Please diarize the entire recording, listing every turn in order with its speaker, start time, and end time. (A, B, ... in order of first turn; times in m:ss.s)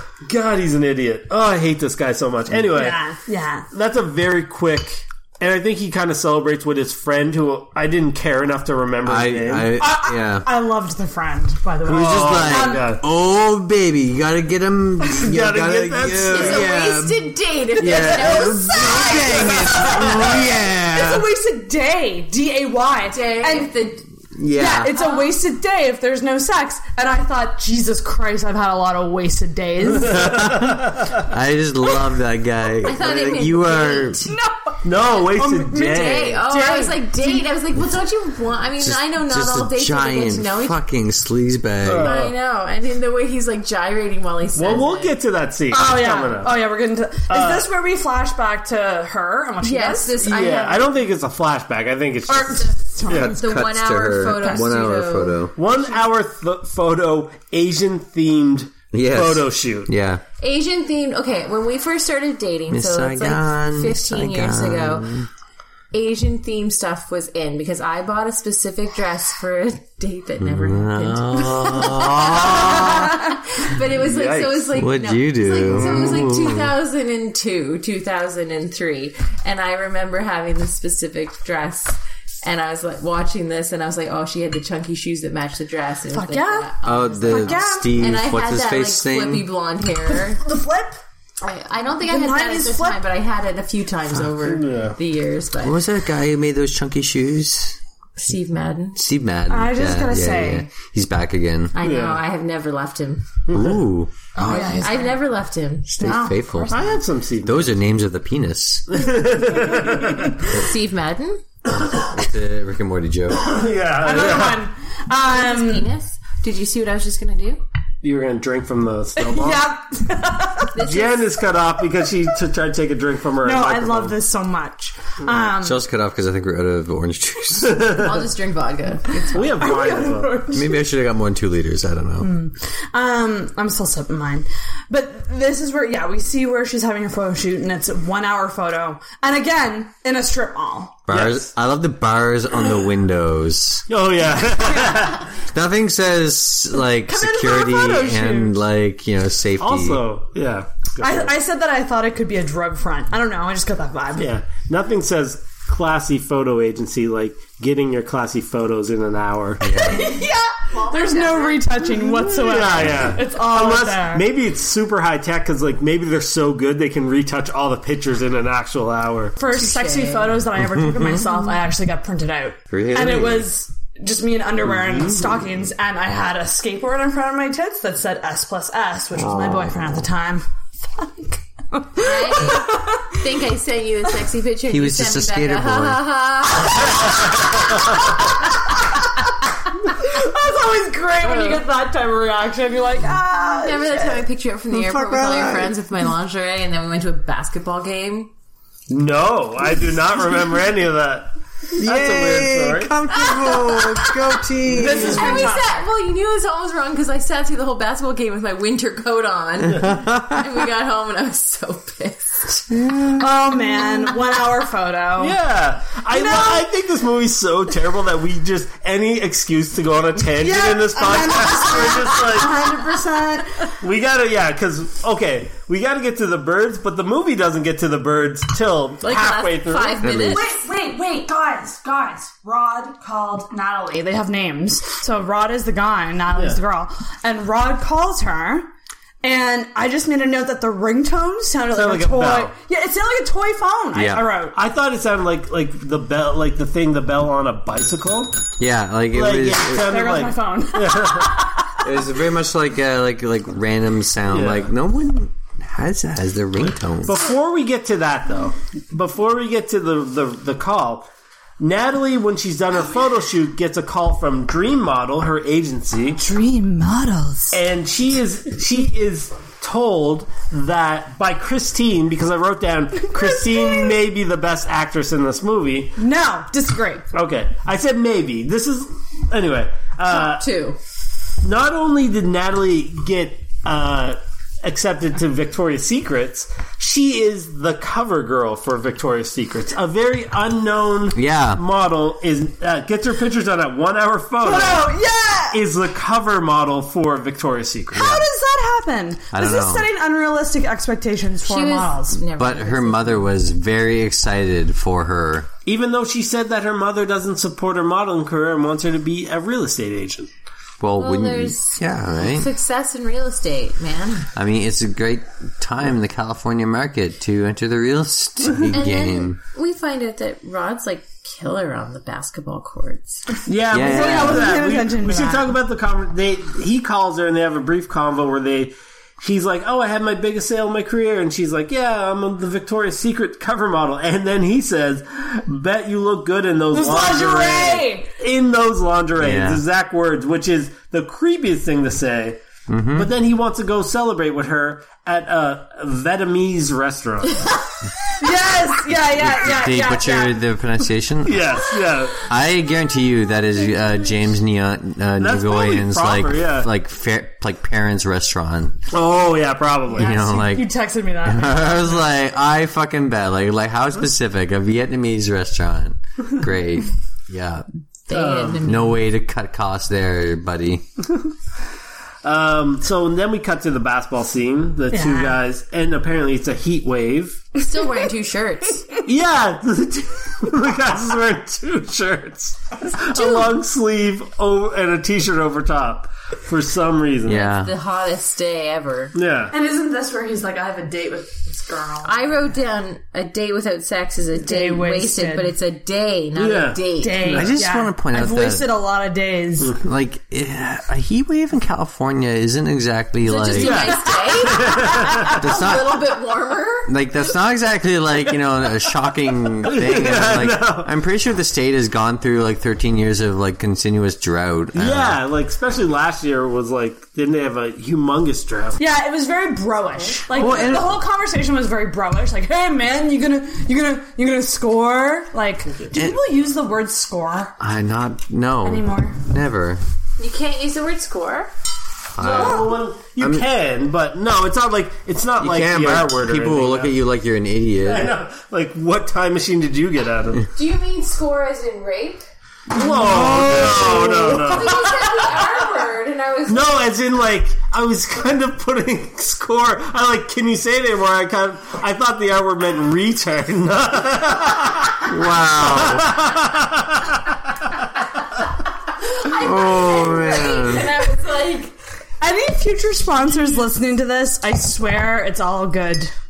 0:00.2-0:03.0 A
0:02.7-0:03.7 B
0:03.7-0:09.7 A
0:09.0-0:10.5 C
0:09.8-0:12.9 B
0:11.8-0:21.2 C
0:11.8-0:13.0 A
0:15.2-0:16.7 A
0:16.3-0:19.9 D
0:17.8-0:23.7 B
0:17.8-0:18.3 A
0:23.1-0:24.1 D
0:24.3-0:24.9 C
0:24.5-0:30.5 B
0:24.8-0:25.4 D
0:30.0-0:34.2 C
0:30.2-0:30.9 A
0:32.8-0:34.3 D
0:33.0-0:33.4 A
0:34.3-0:37.5 B
0:34.8-0:36.4 A
0:35.7-0:40.8 D
0:38.8-0:42.1 C
0:41.8-0:42.3 A
0:42.0-0:45.2 D
0:44.5-0:46.6 A
0:45.7-0:50.2 B
0:47.3-0:47.7 A
0:49.6-0:51.0 D
0:50.2-0:53.3 A
0:52.3-0:53.4 B
0:53.1-0:55.5 C
0:53.4-0:55.5 D
0:54.3-0:54.7 B
0:55.6-0:59.9 A
0:58.9-1:00.2 C
1:00.4-1:05.2 D
1:02.7-1:05.3 C
1:05.9-1:30.4 D
1:10.4-1:13.2 C
1:13.8-1:14.7 A
1:14.7-1:16.6 C
1:15.6-1:16.6 A
1:26.1-1:26.7 B
1:26.8-1:29.5 C
1:27.2-1:28.1 B
1:30.1-1:31.0 B
1:31.4-1:35.8 D
1:32.0-1:33.0 B
1:34.4-1:35.0 A
1:35.6-1:37.8 C
1:38.2-1:39.0 D
1:38.9-1:41.7 C
1:39.5-1:40.7 B
1:41.7-1:43.4 D
1:41.8-1:42.2 A
1:43.5-1:44.9 C
1:44.4-1:45.1 B
1:44.4-1:46.1 D
1:45.8-1:46.8 C
1:46.0-1:46.9 B
1:46.7-1:47.7 A
1:47.4-1:48.9 C
1:48.9-1:50.4 A
1:50.4-1:51.4 D
1:51.7-1:53.4 C
1:53.4-1:54.6 A
1:54.0-1:55.9 B
1:55.3-1:57.6 D
1:58.0-1:59.6 A
1:59.2-2:00.8 B
2:00.7-2:01.4 D
2:00.8-2:04.2 A
2:03.4-2:05.8 B
2:05.6-2:08.0 C
2:07.6-2:08.1 A
2:07.9-2:09.7 D
2:09.3-2:10.4 A
2:09.6-2:10.8 B
2:10.5-2:12.3 C
2:12.2-2:21.0 B
2:21.1-2:23.8 C
2:21.1-2:21.5 A
2:23.9-2:25.2 A
2:25.4-2:30.0 C
2:27.0-2:28.6 B
2:29.6-2:31.3 A
2:31.0-2:34.3 B
2:34.2-2:39.7 A
2:39.6-2:40.1 C
2:39.8-2:44.3 B
2:40.0-2:41.7 D
2:42.3-2:49.3 A
2:49.4-3:03.1 B
2:49.5-2:50.4 D
2:50.7-2:51.2 C
2:52.7-2:53.5 C
2:59.1-3:00.0 C
3:02.0-3:08.4 D
3:04.7-3:06.1 C
3:09.9-3:14.3 B
3:11.3-3:11.6 A
3:13.5-3:18.3 D
3:14.7-3:15.7 C
3:18.9-3:22.9 A
3:21.8-3:25.5 C
3:23.2-3:24.1 D
3:24.7-3:25.8 B
3:24.9-3:32.7 D
3:29.8-3:30.4 C
3:32.7-3:33.2 C
3:33.2-3:35.4 B
3:35.2-3:42.7 A
3:36.1-3:36.7 B
3:40.3-3:43.7 B
3:43.8-3:50.1 A
3:49.0-3:50.5 D
3:50.0-3:50.4 C
3:50.3-3:58.7 B
3:56.3-3:56.6 A
3:59.2-4:04.6 B
4:01.7-4:02.5 A
4:03.9-4:04.2 C
4:04.5-4:08.4 A
4:08.6-4:09.8 C
4:09.1-4:11.4 A
4:09.8-4:11.7 B
4:11.8-4:17.2 C
4:14.3-4:14.7 A
4:17.0-4:21.1 A
4:21.6-4:26.2 A
4:26.1-4:27.6 B
4:27.5-4:36.0 A
4:33.2-4:33.9 B
4:36.0-4:37.0 B
4:37.1-4:40.4 A
4:40.1-4:40.8 D
4:41.4-4:54.9 A
4:51.1-4:51.6 C
4:54.4-4:55.6 B
4:55.5-4:58.1 A
4:57.9-5:02.2 B
4:57.9-4:58.2 C
4:59.3-4:59.9 C
5:01.4-5:03.2 D
5:02.3-5:05.5 C
5:05.6-5:10.3 A
5:10.8-5:12.5 C
5:11.0-5:14.3 D
5:14.4-5:19.4 C
5:18.7-5:23.4 D
5:23.4-5:42.4 A
5:23.7-5:24.6 C
5:23.8-5:25.5 B
5:36.7-5:38.1 B
5:39.2-5:39.6 C
5:42.7-5:43.1 C
5:42.9-5:47.5 A
5:48.2-5:50.4 B
5:49.0-5:51.6 C
5:51.2-5:52.3 A
5:52.2-5:58.8 C
5:55.2-5:56.7 A
5:58.9-6:00.2 A
5:59.9-6:00.7 C
6:00.0-6:02.0 B
6:01.2-6:07.6 C
6:08.1-6:09.0 D
6:08.1-6:08.6 A
6:08.6-6:10.8 C
6:12.2-6:17.6 A
6:14.9-6:15.4 B
6:17.6-6:19.0 D
6:19.0-6:27.5 A
6:23.2-6:23.5 D
6:27.2-6:27.7 C
6:27.3-6:29.1 D
6:29.1-6:29.5 A
6:29.5-6:32.2 B
6:32.0-6:37.4 D
6:34.4-6:35.5 B
6:36.3-6:37.6 A
6:37.0-6:39.8 B
6:37.3-6:38.6 C
6:39.8-6:43.9 C
6:43.2-6:46.9 D
6:43.5-6:45.4 A
6:45.3-6:46.2 C
6:46.9-6:55.2 C
6:49.6-6:50.9 A
6:54.7-6:58.8 A
6:58.8-7:07.6 B
7:00.3-7:01.0 C
7:05.9-7:06.2 C
7:07.6-7:09.8 C
7:08.6-7:09.2 B
7:10.2-7:11.5 D
7:12.2-7:13.5 C
7:12.2-7:16.9 A
7:15.4-7:18.1 C
7:17.8-7:20.5 A
7:20.5-7:22.3 D
7:22.7-7:25.5 A
7:22.9-7:24.6 C
7:24.4-7:26.9 D
7:26.5-7:37.2 A
7:35.1-7:36.2 C
7:39.0-7:41.7 D
7:39.4-7:40.9 C
7:42.2-7:46.1 B